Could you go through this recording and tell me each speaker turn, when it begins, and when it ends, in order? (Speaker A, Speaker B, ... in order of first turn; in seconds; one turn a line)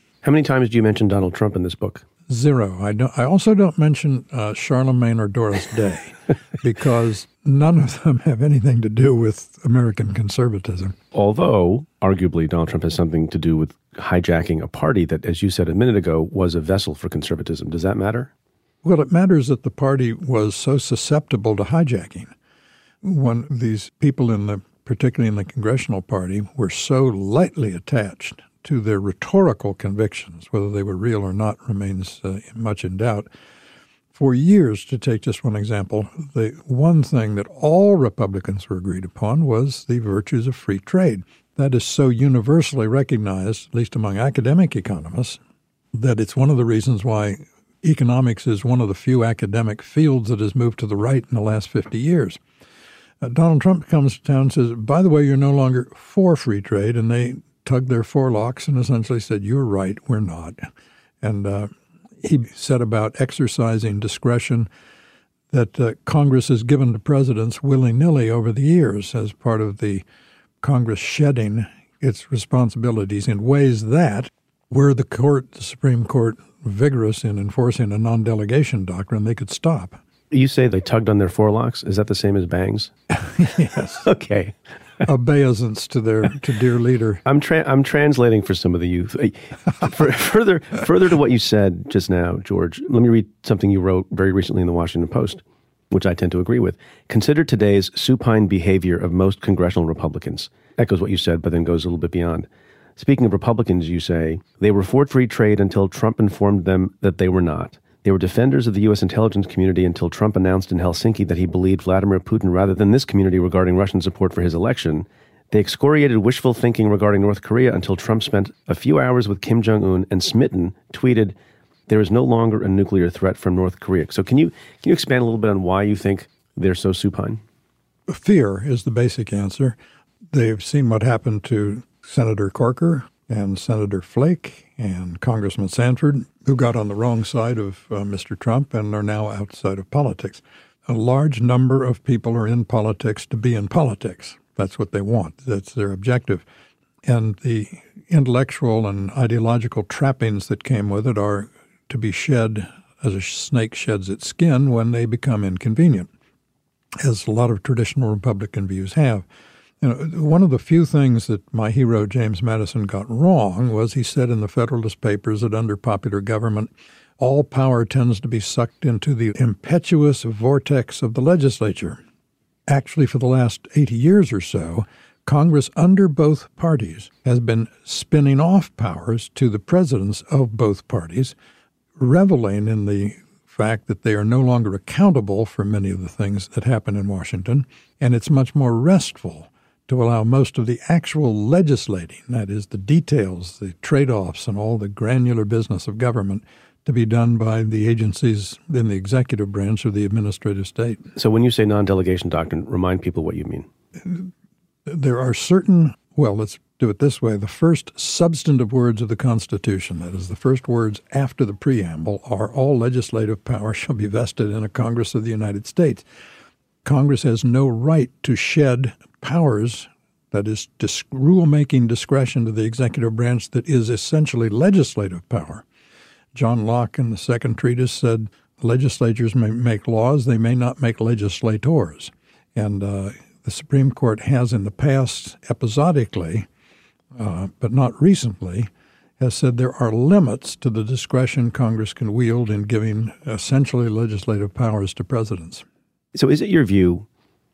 Speaker A: 0.2-2.0
Speaker B: 2.3-11.0
Speaker A: 11.1-18.3
Speaker B: 18.8-22.3
Speaker B: 23.0-33.3
Speaker B: 34.1-45.4
Speaker B: 45.9-52.4
Speaker B: 53.2-60.6
Speaker B: 61.2-64.7
Speaker B: 65.5-70.0
Speaker B: 70.6-80.0
Speaker A: 80.3-82.9
Speaker B: 83.2-84.1
Speaker A: 84.0-84.6
Speaker B: 85.0-87.2
Speaker A: 87.2-121.3
Speaker A: 121.9-127.4
Speaker B: 128.1-129.8
Speaker B: 130.3-146.4
Speaker B: 147.0-156.1
Speaker B: 157.0-159.3
Speaker B: 159.8-172.0
Speaker B: 172.7-181.3
Speaker B: 182.0-201.1
Speaker A: 201.2-203.7
Speaker B: 204.0-204.3
Speaker B: 204.9-216.1
Speaker B: 216.8-225.6
Speaker B: 226.3-236.5
Speaker B: 237.2-245.7
Speaker A: 246.2-247.1